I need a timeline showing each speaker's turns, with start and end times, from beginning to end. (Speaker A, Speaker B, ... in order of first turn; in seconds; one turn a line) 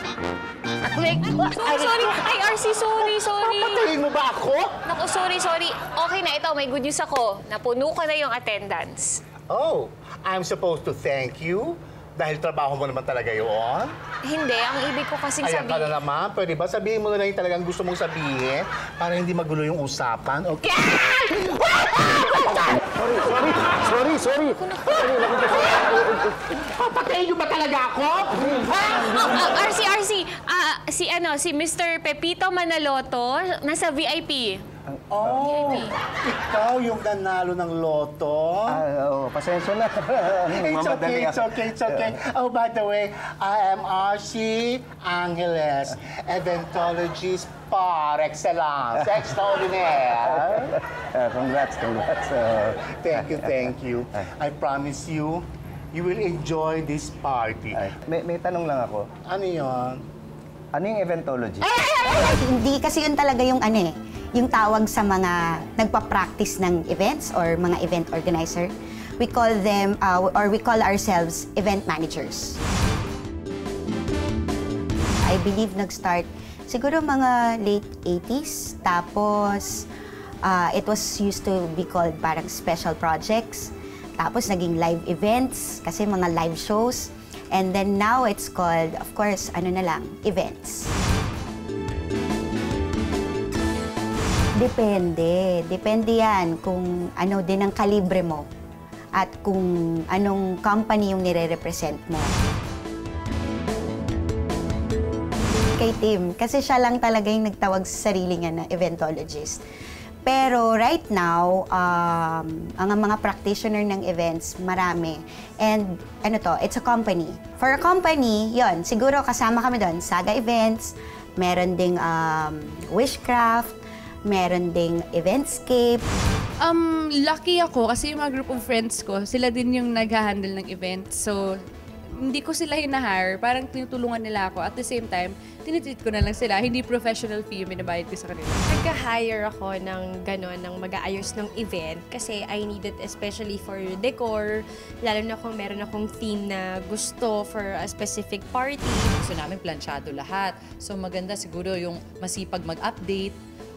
Speaker A: 0.9-4.7
Speaker B: 1.5-3.9
Speaker B: 4.8-9.2
Speaker A: 9.5-13.9
Speaker B: 14.2-15.9
Speaker A: 15.4-21.5
Speaker B: 24.6-25.0
Speaker A: 26.5-29.4
Speaker B: 29.0-34.6
Speaker A: 35.1-38.8
Speaker B: 35.4-35.9
Speaker C: 38.7-41.4
Speaker A: 40.5-50.8
Speaker C: 50.5-53.2
Speaker A: 52.9-57.8
Speaker C: 57.7-59.1
Speaker A: 59.2-60.0
Speaker C: 60.7-61.7
Speaker D: 61.7-72.6
Speaker D: 75.2-79.9
Speaker D: 80.4-90.9
Speaker D: 94.5-98.5
Speaker D: 99.1-102.4
Speaker D: 105.8-109.6
Speaker D: 110.2-126.0
Speaker E: 126.6-131.6
Speaker E: 132.2-138.6
Speaker F: 138.7-149.1
Speaker G: 149.2-153.4